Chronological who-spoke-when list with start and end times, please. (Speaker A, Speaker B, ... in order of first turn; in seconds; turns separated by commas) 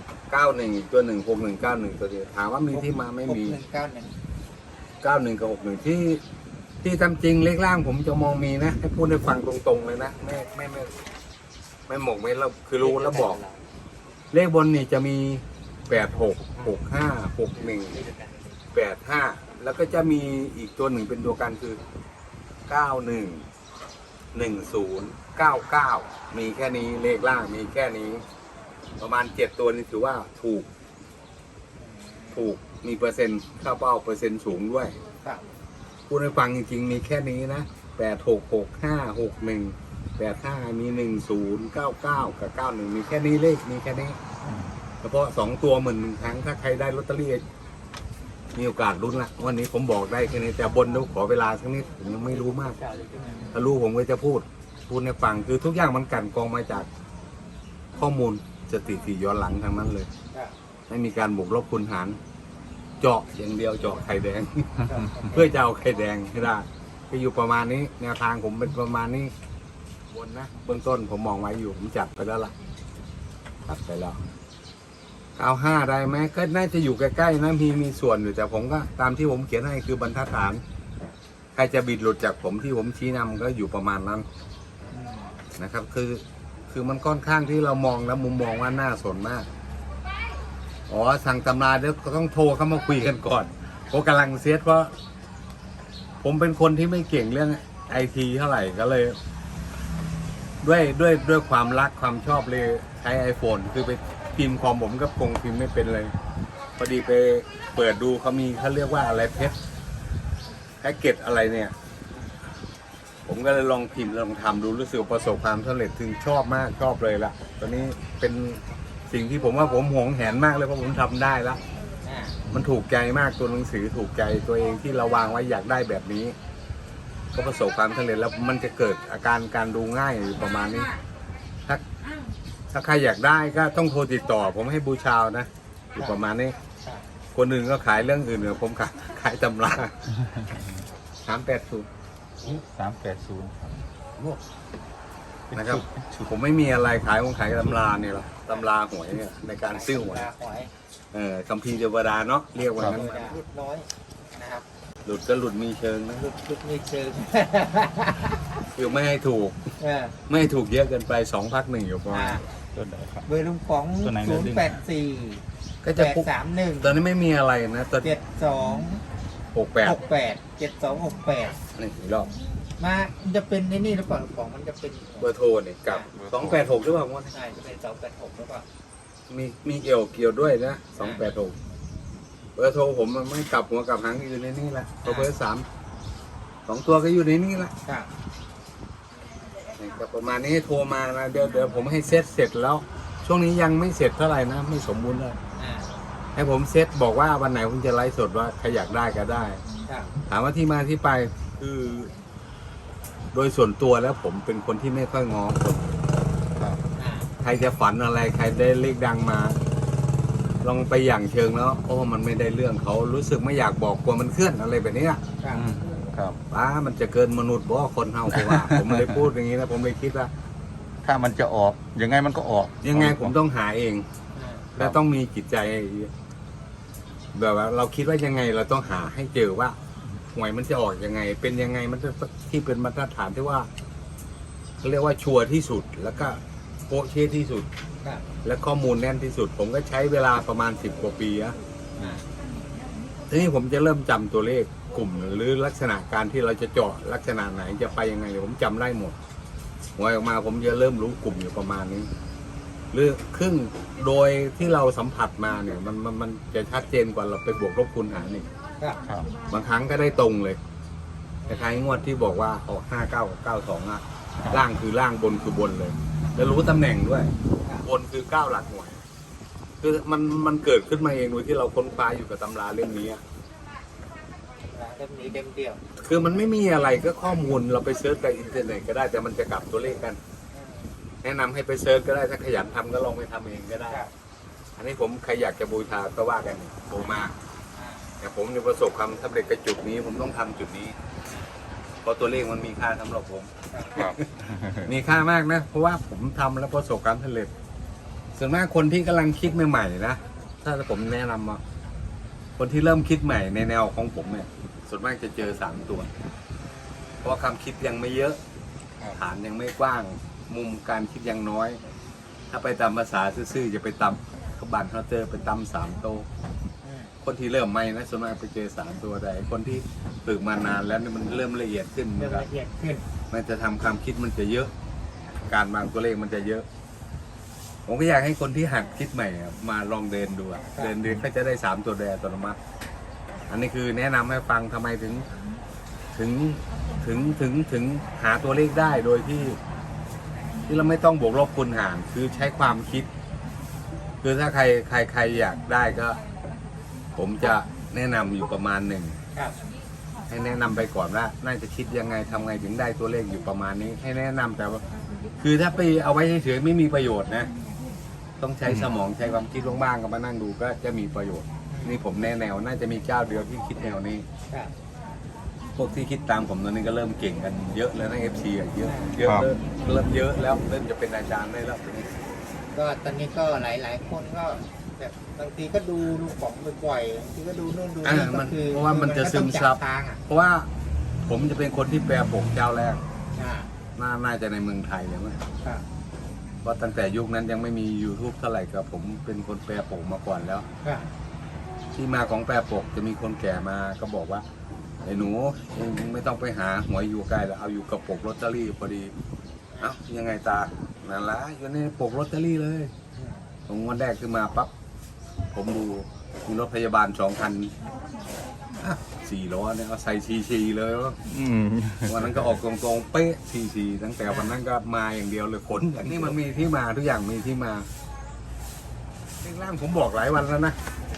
Speaker A: 0.3-3.6, Speaker B: 2.7-4.1, Speaker A: 5.0-6.2, Speaker A: 6.8-11.0, Speaker A: 11.9-13.4, Speaker B: 12.8-13.6, Speaker A: 14.3-18.0, Speaker B: 17.9-18.5, Speaker A: 18.7-21.8, Speaker A: 22.7-23.4, Speaker A: 24.3-28.2, Speaker A: 29.0-30.7, Speaker B: 31.8-32.4, Speaker A: 32.3-35.0, Speaker A: 36.1-44.2, Speaker A: 45.0-47.4, Speaker A: 48.5-52.8, Speaker B: 52.6-53.5, Speaker A: 53.5-56.9, Speaker A: 57.9-60.1, Speaker A: 60.9-62.2, Speaker A: 63.0-69.3, Speaker B: 64.9-65.5, Speaker A: 70.1-72.5, Speaker A: 73.7-74.2, Speaker A: 75.4-80.6, Speaker A: 81.5-84.2, Speaker B: 84.9-85.4, Speaker A: 85.5-89.5, Speaker A: 90.9-94.9, Speaker A: 96.2-99.2, Speaker A: 100.6-106.1, Speaker A: 106.8-109.6, Speaker A: 110.8-111.7, Speaker A: 113.2-121.6, Speaker B: 122.0-122.4, Speaker A: 122.5-126.3, Speaker A: 127.3-130.9, Speaker A: 132.7-136.6, Speaker A: 137.3-139.9, Speaker C: 140.3-140.6, Speaker A: 141.2-141.9, Speaker C: 142.4-143.6, Speaker A: 145.5-150.3, Speaker C: 145.5-145.8, Speaker B: 149.7-150.7, Speaker A: 151.1-153.2, Speaker B: 152.8-154.7, Speaker A: 155.1-156.2, Speaker B: 156.2-158.6, Speaker A: 158.7-159.7, Speaker B: 159.8-160.2, Speaker A: 160.3-162.4, Speaker B: 162.1-162.4, Speaker C: 162.7-163.2, Speaker B: 163.2-165.4, Speaker C: 164.0-164.8, Speaker A: 165.8-166.3, Speaker B: 165.9-166.9, Speaker A: 166.8-168.1, Speaker B: 168.0-169.0, Speaker A: 169.5-170.0, Speaker B: 169.8-171.6, Speaker A: 171.7-172.3, Speaker B: 172.8-175.3, Speaker A: 175.2-177.3, Speaker C: 176.2-176.6, Speaker B: 177.3-178.7, Speaker A: 179.3-181.6, Speaker A: 182.6-185.7, Speaker A: 186.7-187.7, Speaker A: 189.8-195.4, Speaker B: 195.6-195.9, Speaker A: 196.3-199.6, Speaker B: 199.9-200.1, Speaker A: 200.3-202.1, Speaker A: 203.3-205.9, Speaker B: 207.0-207.3, Speaker A: 207.4-209.6, Speaker A: 210.6-215.2, Speaker B: 215.4-215.7, Speaker C: 215.5-216.4, Speaker A: 216.5-220.3, Speaker C: 218.3-219.2, Speaker C: 221.0-223.3, Speaker A: 222.8-224.1, Speaker B: 224.3-224.7, Speaker A: 224.7-226.1, Speaker A: 227.3-229.8, Speaker A: 230.3-233.7, Speaker A: 234.8-237.7, Speaker A: 238.4-242.2, Speaker B: 242.0-242.2, Speaker A: 243.3-249.2, Speaker A: 250.0-252.1, Speaker A: 252.9-258.5, Speaker C: 259.0-259.3, Speaker A: 259.5-260.6, Speaker A: 261.5-267.3, Speaker A: 267.8-269.0, Speaker A: 269.8-273.2, Speaker B: 274.7-275.8, Speaker A: 276.0-280.2, Speaker B: 280.5-280.9, Speaker A: 281.2-284.0, Speaker A: 284.8-287.3, Speaker B: 287.7-288.1, Speaker A: 288.2-290.9, Speaker A: 292.0-297.5, Speaker B: 293.7-294.1, Speaker C: 293.9-294.8, Speaker A: 298.3-301.6, Speaker A: 302.6-306.1, Speaker B: 306.6-307.3, Speaker A: 307.2-308.4, Speaker A: 309.1-311.8, Speaker A: 312.5-316.3, Speaker B: 316.8-317.1, Speaker A: 317.2-322.4, Speaker B: 322.2-323.0, Speaker A: 323.3-324.7, Speaker A: 325.3-326.6, Speaker A: 327.9-332.6, Speaker A: 333.5-335.3, Speaker A: 336.1-339.6, Speaker A: 340.7-343.1, Speaker A: 344.2-346.2, Speaker A: 347.1-349.2, Speaker A: 350.3-354.8, Speaker A: 355.4-357.5, Speaker A: 358.4-364.2, Speaker B: 361.7-362.0, Speaker A: 365.7-372.1, Speaker B: 368.8-369.1, Speaker B: 372.7-380.2, Speaker A: 378.0-380.7, Speaker A: 381.2-383.0, Speaker B: 383.3-383.7, Speaker A: 384.0-385.4, Speaker A: 386.6-390.6, Speaker B: 390.8-391.1, Speaker A: 391.9-394.4, Speaker A: 395.0-399.1, Speaker A: 399.8-402.9, Speaker B: 403.1-403.5, Speaker A: 403.7-404.7, Speaker A: 405.5-407.7, Speaker A: 408.8-411.2, Speaker C: 411.3-412.4, Speaker A: 412.1-417.9, Speaker A: 419.4-420.8